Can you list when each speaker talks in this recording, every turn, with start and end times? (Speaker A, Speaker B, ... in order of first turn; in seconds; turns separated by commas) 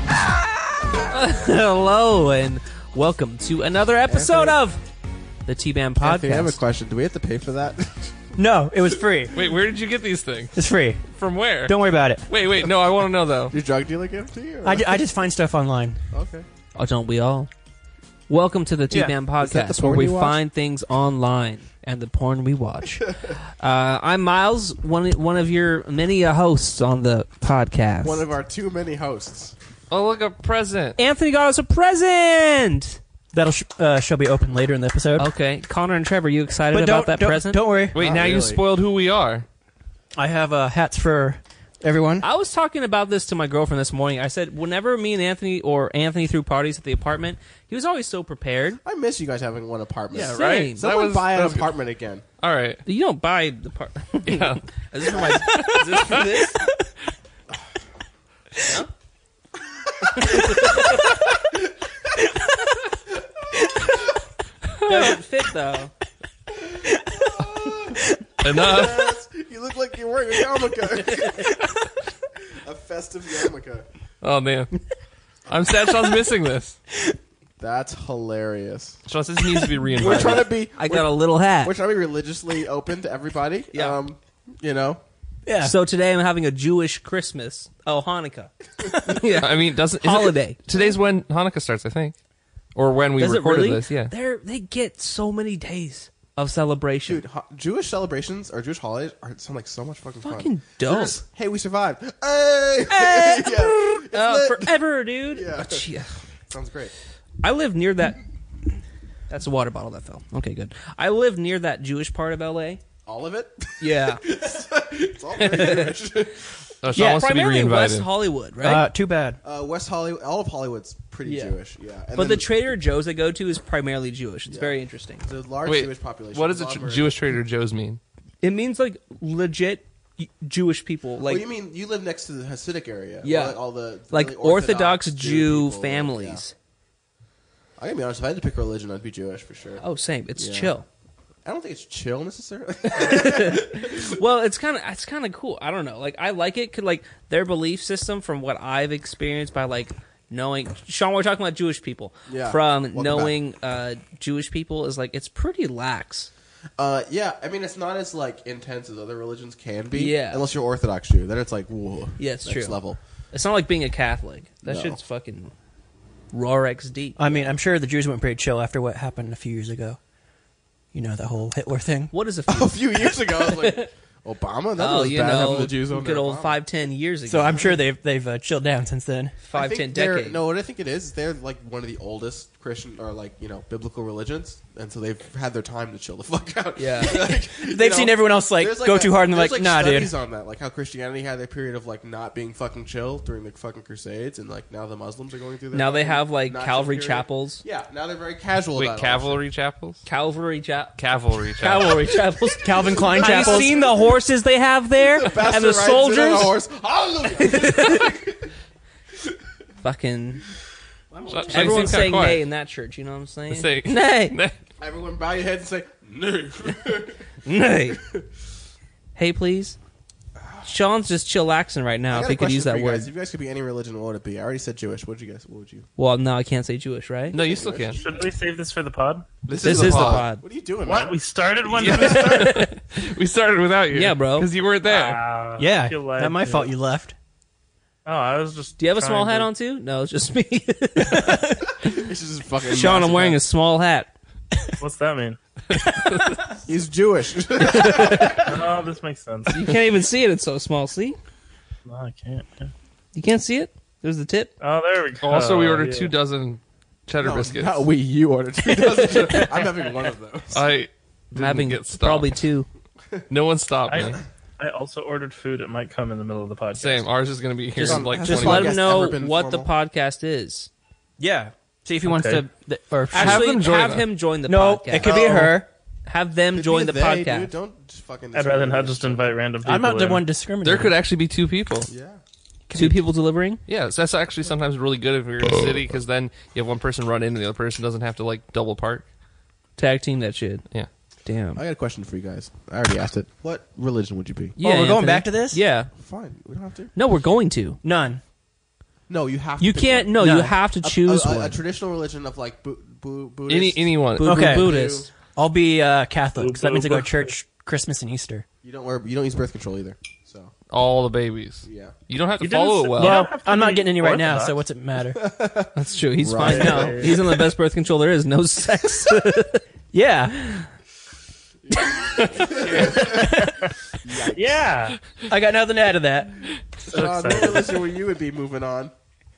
Speaker A: 1.1-4.8, Speaker B: 4.1-4.6, Speaker A: 5.4-6.6, Speaker B: 6.0-8.1, Speaker C: 8.4-9.4, Speaker D: 9.3-10.6, Speaker C: 10.5-11.0, Speaker D: 11.1-11.8, Speaker C: 11.6-12.3, Speaker D: 12.3-13.6, Speaker B: 13.5-15.0, Speaker C: 14.6-16.0, Speaker B: 16.1-16.4, Speaker A: 16.7-17.5, Speaker A: 18.3-23.1, Speaker C: 18.9-19.1, Speaker B: 19.4-20.4, Speaker B: 23.0-23.4, Speaker A: 23.6-28.2, Speaker B: 28.0-29.6, Speaker D: 29.9-31.0, Speaker A: 31.0-33.0, Speaker C: 33.3-35.3, Speaker A: 35.2-37.7, Speaker C: 36.7-38.0, Speaker D: 37.9-39.5, Speaker B: 38.0-38.6, Speaker C: 40.2-42.2, Speaker A: 42.2-48.8, Speaker B: 48.8-52.2, Speaker A: 50.1-50.9, Speaker D: 50.2-51.7, Speaker D: 52.4-52.8, Speaker A: 52.8-56.6, Speaker D: 54.2-54.6, Speaker D: 55.1-56.2, Speaker A: 58.6-58.9, Speaker C: 60.2-61.1, Speaker C: 62.2-62.8, Speaker C: 63.5-64.2, Speaker D: 64.8-65.1, Speaker A: 64.8-65.9, Speaker B: 66.5-71.6, Speaker C: 66.8-68.2, Speaker D: 68.4-69.1, Speaker C: 71.0-71.7, Speaker B: 72.6-73.8, Speaker D: 74.2-74.7, Speaker D: 75.5-76.8, Speaker B: 77.6-79.0, Speaker D: 79.0-80.5, Speaker B: 79.9-85.0, Speaker A: 80.8-81.7, Speaker A: 83.7-84.0, Speaker C: 85.5-85.7, Speaker A: 85.6-90.7, Speaker C: 88.8-89.2, Speaker D: 89.2-92.1, Speaker D: 92.7-94.1, Speaker A: 93.2-97.2, Speaker B: 97.0-104.8, Speaker A: 100.2-101.2, Speaker A: 102.9-106.2, Speaker B: 105.3-105.8, Speaker B: 106.5-106.9, Speaker A: 107.4-108.2, Speaker A: 109.3-112.8, Speaker B: 113.0-116.6, Speaker A: 113.8-114.2, Speaker A: 115.4-116.0, Speaker D: 116.8-118.1, Speaker C: 117.0-117.2, Speaker A: 117.0-118.8, Speaker C: 118.6-119.4, Speaker B: 119.4-122.5, Speaker A: 121.2-121.5, Speaker A: 122.1-125.2, Speaker B: 124.5-127.2, Speaker D: 125.6-128.0, Speaker A: 128.4-131.5, Speaker B: 131.2-136.4, Speaker A: 133.2-133.6, Speaker A: 134.1-136.5, Speaker B: 137.8-139.8, Speaker A: 139.8-140.8, Speaker B: 140.3-140.7, Speaker B: 141.4-144.2, Speaker A: 142.9-156.3, Speaker B: 152.3-153.3, Speaker B: 156.8-163.0, Speaker A: 159.9-160.4, Speaker A: 162.2-162.8, Speaker A: 163.3-165.5, Speaker B: 164.6-165.0, Speaker A: 166.3-167.5, Speaker C: 167.2-170.0, Speaker C: 170.9-172.1, Speaker A: 172.1-173.9, Speaker B: 172.5-176.6, Speaker A: 174.8-177.8, Speaker C: 177.3-179.3, Speaker A: 179.4-180.4, Speaker B: 179.5-199.4, Speaker A: 186.8-187.3, Speaker C: 187.4-190.1, Speaker A: 195.7-197.6, Speaker D: 198.7-200.0, Speaker A: 200.0-201.0, Speaker D: 201.0-202.0, Speaker C: 201.6-203.9, Speaker A: 201.6-206.6, Speaker B: 202.9-204.1, Speaker B: 205.0-208.5, Speaker A: 207.3-208.1, Speaker A: 209.8-210.4, Speaker B: 211.1-212.1, Speaker D: 211.3-212.4, Speaker A: 211.5-214.4, Speaker D: 213.5-214.5, Speaker B: 214.8-217.2, Speaker A: 217.4-218.0, Speaker B: 217.9-218.2, Speaker A: 219.2-219.8, Speaker B: 220.4-220.7, Speaker A: 220.6-223.1, Speaker B: 222.1-225.9, Speaker A: 226.0-227.4, Speaker D: 227.3-228.0, Speaker B: 227.3-228.3, Speaker E: 227.9-229.4, Speaker D: 229.4-230.3, Speaker B: 229.5-231.2, Speaker A: 229.6-230.4, Speaker E: 230.8-232.5, Speaker D: 231.7-235.2, Speaker A: 231.8-232.8, Speaker A: 233.9-234.5, Speaker E: 234.8-236.7, Speaker C: 235.6-237.2, Speaker E: 238.0-239.5, Speaker A: 238.8-241.9, Speaker C: 241.0-241.4, Speaker B: 241.7-243.4, Speaker A: 242.6-244.1, Speaker E: 244.8-245.4, Speaker D: 245.8-246.4, Speaker B: 246.6-248.6, Speaker A: 247.6-248.5, Speaker E: 248.2-249.7, Speaker A: 249.5-251.2, Speaker E: 251.8-252.7, Speaker A: 253.1-254.5, Speaker E: 254.6-256.1, Speaker D: 255.2-257.9, Speaker B: 257.2-260.7, Speaker A: 258.7-259.6, Speaker D: 260.5-262.4, Speaker A: 261.3-262.7, Speaker D: 263.3-264.2, Speaker E: 263.9-267.1, Speaker D: 266.7-268.9, Speaker A: 267.8-270.7, Speaker B: 267.8-269.7, Speaker C: 271.2-273.5, Speaker E: 272.0-272.4, Speaker D: 273.1-274.1, Speaker A: 273.1-277.5, Speaker C: 274.5-275.7, Speaker B: 275.0-275.5, Speaker B: 276.5-279.3, Speaker E: 278.3-280.2, Speaker C: 279.6-280.9, Speaker D: 280.6-281.9, Speaker B: 281.9-282.2, Speaker C: 282.7-283.0, Speaker A: 282.7-283.6, Speaker D: 283.7-289.1, Speaker A: 289.8-290.6, Speaker A: 291.2-291.6, Speaker B: 291.6-294.6, Speaker C: 294.6-295.6, Speaker A: 294.6-295.9, Speaker B: 295.9-296.9, Speaker A: 296.9-297.8, Speaker C: 297.8-298.2, Speaker B: 299.1-305.1, Speaker A: 299.6-301.6, Speaker C: 300.2-300.5, Speaker D: 303.5-304.4, Speaker A: 304.2-305.1, Speaker C: 304.2-304.7, Speaker C: 305.4-308.4, Speaker E: 306.4-307.2, Speaker B: 308.6-310.5, Speaker D: 310.7-313.3, Speaker B: 311.6-311.9, Speaker E: 312.4-314.6, Speaker C: 313.0-315.2, Speaker B: 315.1-317.4, Speaker A: 315.7-319.6, Speaker E: 316.4-317.2, Speaker C: 319.9-320.6, Speaker B: 321.6-323.5, Speaker C: 322.7-323.5, Speaker B: 324.0-324.6, Speaker E: 324.3-325.0, Speaker C: 325.3-326.4, Speaker B: 326.9-328.9, Speaker E: 326.9-327.8